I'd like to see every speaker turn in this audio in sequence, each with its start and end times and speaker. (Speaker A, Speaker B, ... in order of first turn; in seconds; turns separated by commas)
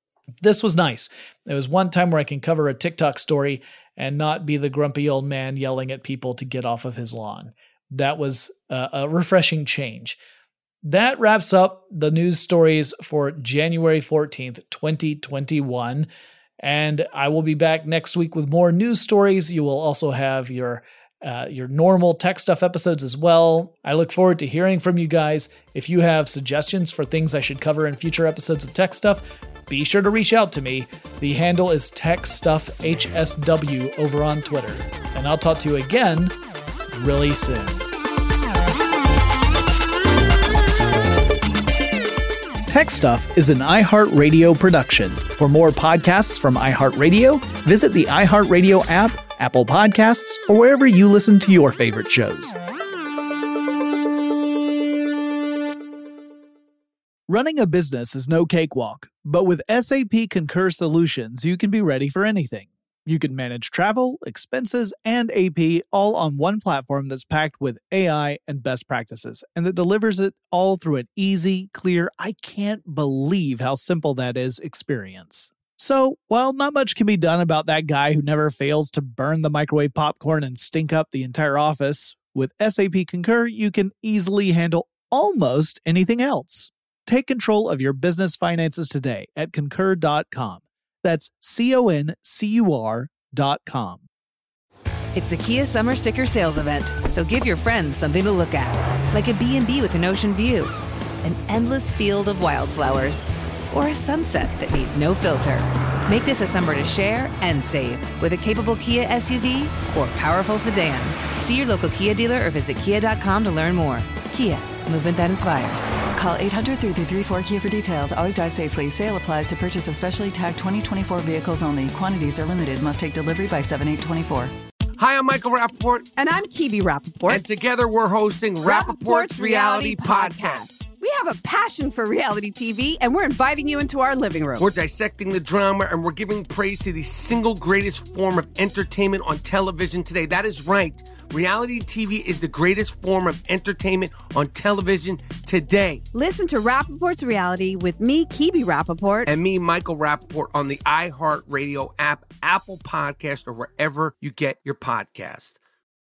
Speaker A: 0.4-10.2, Speaker A: 10.8-16.1, Speaker A: 16.6-36.3, Speaker A: 36.9-37.9, Speaker A: 42.7-52.6, Speaker A: 57.3-94.1, Speaker B: 95.1-100.7, Speaker B: 101.2-116.1, Speaker C: 116.1-124.5, Speaker D: 125.0-126.1, Speaker E: 126.2-127.5, Speaker D: 127.3-130.7, Speaker E: 128.6-134.7, Speaker D: 134.6-146.0, Speaker E: 146.1-149.3, Speaker D: 149.3-155.6